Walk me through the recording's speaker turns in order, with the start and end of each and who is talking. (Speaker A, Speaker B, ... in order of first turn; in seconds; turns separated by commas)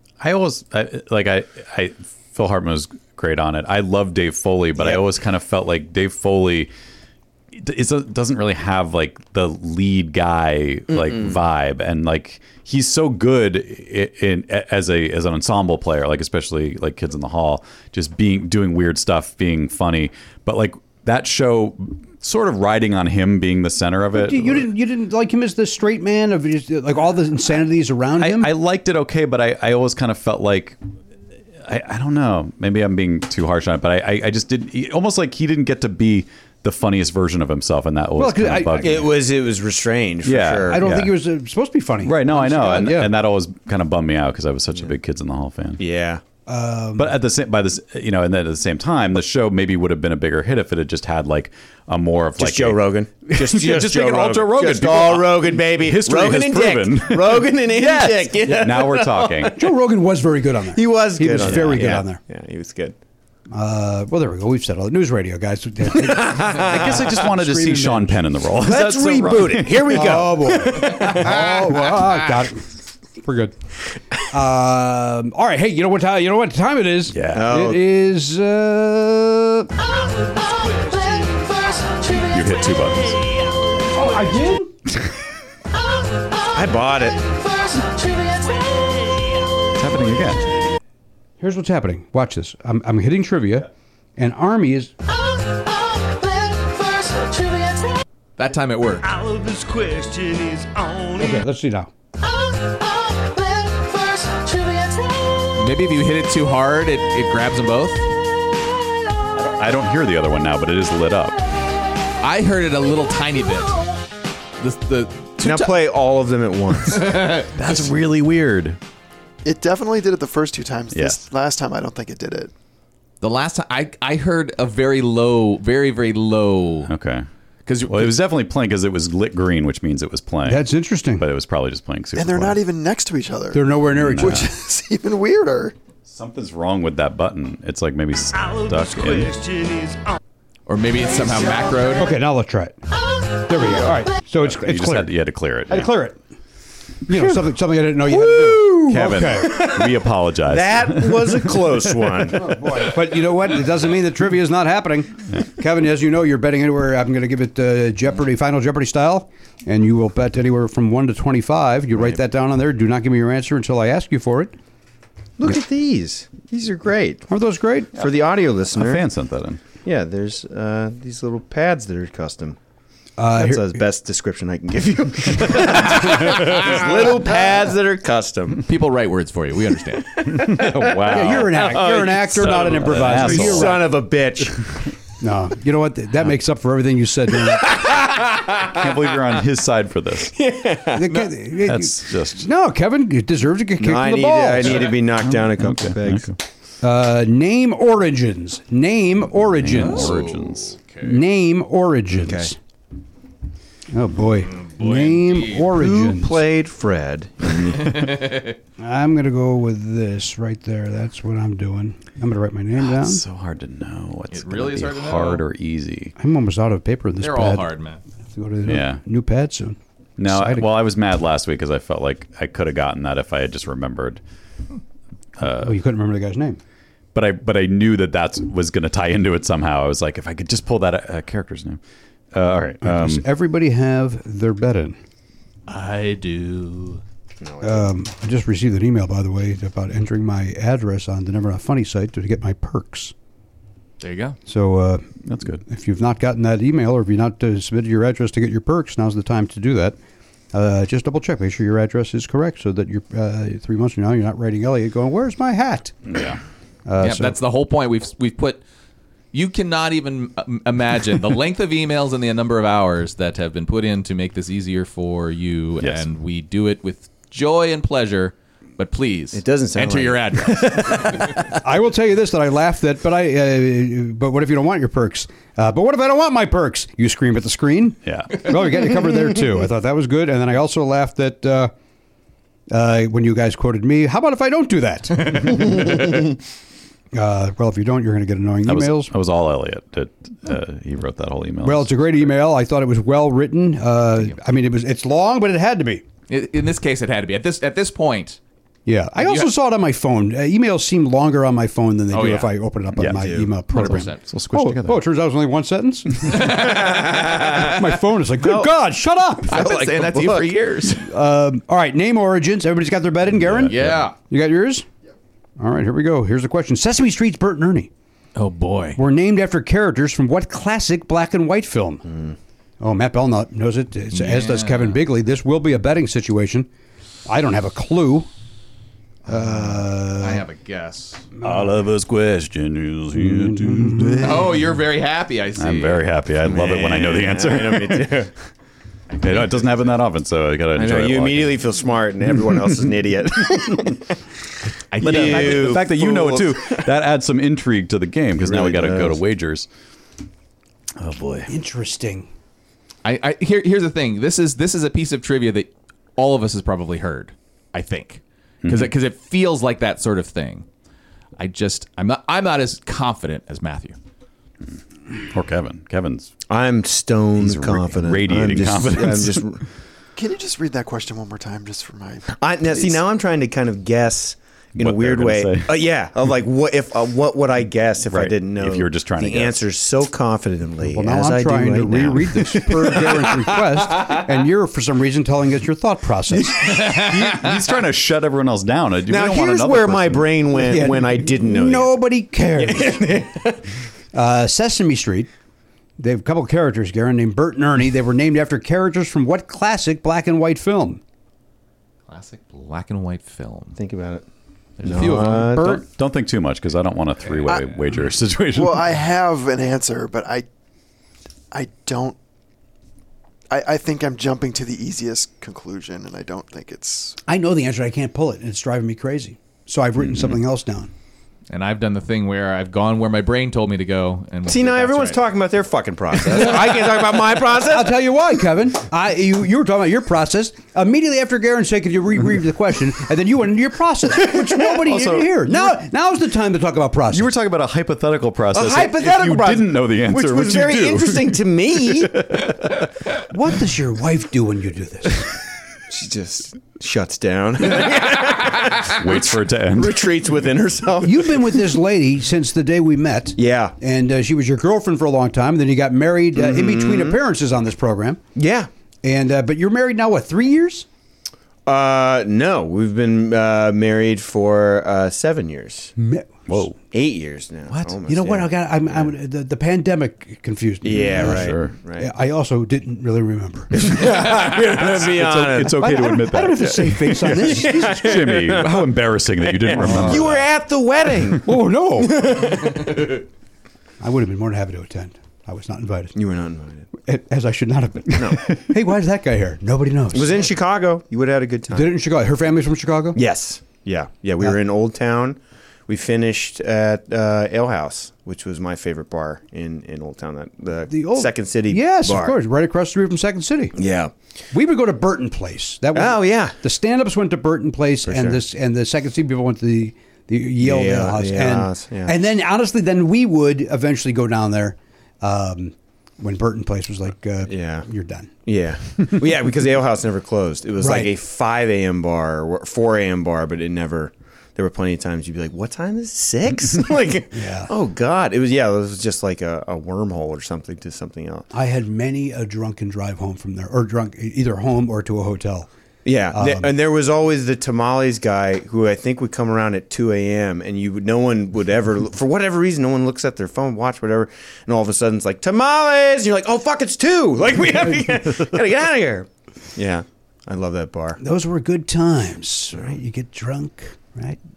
Speaker A: 0.2-6.7, Speaker B: 4.8-5.0, Speaker A: 7.5-24.7, Speaker B: 10.9-11.4, Speaker C: 24.1-28.5, Speaker A: 28.2-30.8, Speaker A: 31.6-39.1, Speaker C: 38.2-39.0, Speaker B: 38.8-40.9, Speaker A: 40.2-41.1, Speaker C: 40.7-43.1, Speaker A: 42.0-45.8, Speaker B: 45.8-46.2, Speaker C: 46.5-47.2, Speaker A: 47.0-59.5, Speaker B: 52.4-59.6, Speaker C: 59.5-62.2, Speaker B: 60.7-63.0, Speaker A: 61.4-61.9, Speaker C: 63.5-68.2, Speaker B: 66.0-67.0, Speaker A: 66.5-70.1, Speaker B: 68.5-71.9, Speaker C: 69.9-73.5, Speaker C: 74.3-79.7, Speaker A: 77.1-77.5, Speaker B: 77.3-77.8, Speaker D: 79.9-83.2, Speaker A: 82.3-83.3, Speaker C: 83.9-84.7, Speaker B: 86.5-87.2, Speaker D: 87.3-89.6, Speaker A: 89.8-90.5, Speaker C: 91.4-94.9, Speaker D: 96.2-97.9, Speaker E: 98.4-99.0, Speaker D: 99.0-101.4, Speaker C: 101.2-101.9, Speaker D: 103.3-105.0, Speaker E: 105.5-108.1, Speaker A: 109.3-111.3, Speaker E: 112.2-113.8, Speaker E: 114.6-115.8, Speaker B: 115.4-117.4, Speaker E: 116.9-117.5, Speaker A: 117.5-118.8, Speaker F: 119.4-122.5, Speaker A: 120.9-121.2, Speaker E: 123.2-126.9, Speaker A: 126.8-127.2, Speaker E: 127.7-128.1, Speaker A: 127.9-132.6, Speaker C: 130.4-131.3, Speaker F: 132.2-135.7, Speaker C: 133.5-134.5, Speaker A: 133.9-134.5, Speaker A: 136.1-139.3, Speaker D: 138.3-140.2, Speaker E: 140.7-142.1, Speaker C: 142.0-142.8, Speaker C: 143.5-145.2, Speaker A: 144.4-145.9, Speaker C: 145.7-146.2, Speaker C: 147.1-149.7, Speaker B: 148.4-152.5, Speaker A: 148.9-152.1, Speaker C: 152.3-164.5, Speaker B: 165.4-167.2, Speaker C: 167.3-168.0, Speaker B: 167.9-169.0, Speaker A: 168.7-169.6, Speaker B: 169.8-172.6, Speaker C: 173.2-173.8, Speaker B: 173.3-178.7, Speaker E: 178.7-180.3, Speaker B: 180.2-184.7, Speaker A: 180.2-181.8, Speaker C: 181.0-183.8, Speaker A: 182.4-183.8, Speaker C: 185.2-187.9, Speaker B: 187.6-188.9, Speaker A: 188.7-190.3, Speaker B: 190.3-191.2, Speaker C: 190.9-194.9, Speaker A: 191.6-192.5, Speaker B: 193.8-196.3, Speaker A: 195.2-196.4, Speaker C: 196.8-200.2, Speaker A: 199.6-200.8, Speaker E: 199.7-201.2, Speaker C: 201.0-202.6, Speaker B: 202.1-202.5, Speaker C: 203.9-206.4, Speaker E: 204.5-205.7, Speaker B: 205.7-208.2, Speaker E: 207.7-208.5, Speaker C: 208.8-213.2, Speaker A: 212.8-216.1, Speaker E: 214.3-215.4, Speaker C: 216.2-217.7, Speaker E: 217.2-218.0, Speaker C: 218.3-220.7, Speaker A: 218.7-219.0, Speaker A: 220.2-224.2, Speaker A: 225.4-225.8, Speaker C: 225.6-226.6, Speaker A: 227.1-231.8, Speaker A: 232.3-233.2, Speaker C: 232.8-235.0, Speaker E: 235.7-237.0, Speaker B: 237.4-237.9, Speaker C: 237.6-243.1, Speaker E: 244.0-244.4, Speaker C: 244.4-245.1, Speaker A: 245.2-245.6, Speaker C: 245.6-250.0, Speaker C: 250.5-256.0, Speaker A: 256.1-256.4, Speaker C: 256.9-257.4, Speaker E: 257.0-258.6, Speaker E: 259.3-271.4, Speaker B: 269.3-271.4, Speaker C: 271.6-281.7, Speaker A: 278.1-278.4, Speaker C: 282.7-286.2, Speaker C: 287.1-289.1, Speaker A: 288.6-292.3, Speaker C: 291.6-296.0, Speaker E: 296.3-298.4, Speaker C: 298.9-309.7, Speaker E: 299.2-299.5, Speaker E: 302.1-302.5, Speaker A: 302.9-305.0, Speaker B: 303.1-303.5, Speaker E: 303.7-304.2, Speaker E: 306.2-307.7, Speaker B: 308.4-308.7, Speaker E: 309.5-311.1, Speaker B: 309.5-310.5, Speaker C: 311.0-314.9, Speaker A: 313.4-314.1, Speaker E: 313.7-314.1, Speaker C: 315.6-317.9, Speaker E: 318.3-319.0, Speaker C: 318.9-322.0, Speaker B: 322.1-322.3, Speaker C: 322.8-326.7, Speaker E: 324.1-325.0, Speaker C: 327.2-328.3, Speaker C: 329.3-330.4, Speaker E: 330.1-331.3, Speaker A: 331.4-334.6, Speaker C: 333.2-334.4, Speaker E: 334.2-336.1, Speaker A: 335.6-338.1, Speaker B: 336.4-338.3, Speaker E: 339.1-339.7, Speaker A: 339.2-341.6, Speaker B: 340.7-344.2, Speaker E: 344.9-345.8, Speaker B: 344.9-346.9, Speaker A: 345.0-349.7, Speaker B: 348.4-349.2, Speaker A: 351.0-351.5, Speaker C: 351.5-352.3, Speaker E: 353.0-360.6, Speaker A: 358.6-358.9, Speaker E: 361.4-364.0, Speaker A: 365.3-366.3, Speaker B: 366.5-369.6, Speaker A: 367.4-369.4, Speaker F: 370.1-372.3, Speaker B: 372.3-383.6, Speaker A: 374.8-375.7, Speaker A: 378.1-379.6, Speaker C: 380.8-386.6, Speaker A: 386.7-390.3, Speaker B: 389.1-391.9, Speaker C: 390.6-393.1, Speaker B: 392.6-393.6, Speaker C: 394.1-395.3, Speaker C: 396.0-401.0, Speaker E: 402.1-403.8, Speaker B: 403.7-404.2, Speaker E: 404.8-405.5, Speaker B: 404.8-405.8, Speaker C: 404.9-405.8, Speaker A: 405.6-408.9, Speaker F: 408.5-410.4, Speaker F: 411.5-412.1, Speaker F: 413.5-417.2, Speaker C: 417.3-420.9, Speaker E: 421.5-425.2, Speaker B: 424.5-428.0, Speaker C: 427.5-437.3, Speaker A: 434.9-435.7, Speaker A: 437.1-441.4, Speaker B: 438.5-442.3, Speaker A: 442.0-442.9, Speaker C: 443.3-445.3, Speaker B: 445.9-451.6, Speaker A: 448.9-450.0, Speaker C: 451.0-458.2, Speaker B: 453.4-453.7, Speaker B: 456.4-457.2, Speaker B: 458.4-458.7, Speaker C: 459.0-460.9, Speaker B: 461.6-465.9, Speaker C: 466.0-466.4, Speaker A: 466.5-466.8, Speaker B: 466.9-469.1, Speaker C: 468.1-473.8, Speaker B: 470.8-472.1, Speaker A: 471.2-471.7, Speaker B: 473.7-475.9, Speaker A: 474.9-480.4, Speaker C: 475.8-478.3, Speaker B: 476.6-481.5, Speaker C: 479.8-480.3, Speaker C: 481.4-482.8, Speaker B: 482.0-482.8, Speaker C: 484.0-486.1, Speaker B: 486.1-486.9, Speaker C: 487.0-490.5, Speaker B: 488.1-488.5, Speaker B: 490.1-491.9, Speaker C: 491.7-493.2, Speaker B: 493.1-502.4, Speaker C: 500.9-503.8, Speaker B: 503.7-504.1, Speaker C: 504.5-518.3, Speaker B: 505.9-506.5, Speaker B: 508.1-508.4, Speaker B: 510.6-512.1, Speaker B: 517.5-517.9, Speaker B: 518.4-531.5, Speaker C: 520.8-521.1, Speaker C: 527.3-527.7, Speaker C: 531.5-535.7, Speaker B: 536.0-551.2, Speaker C: 536.3-536.7, Speaker C: 551.2-554.4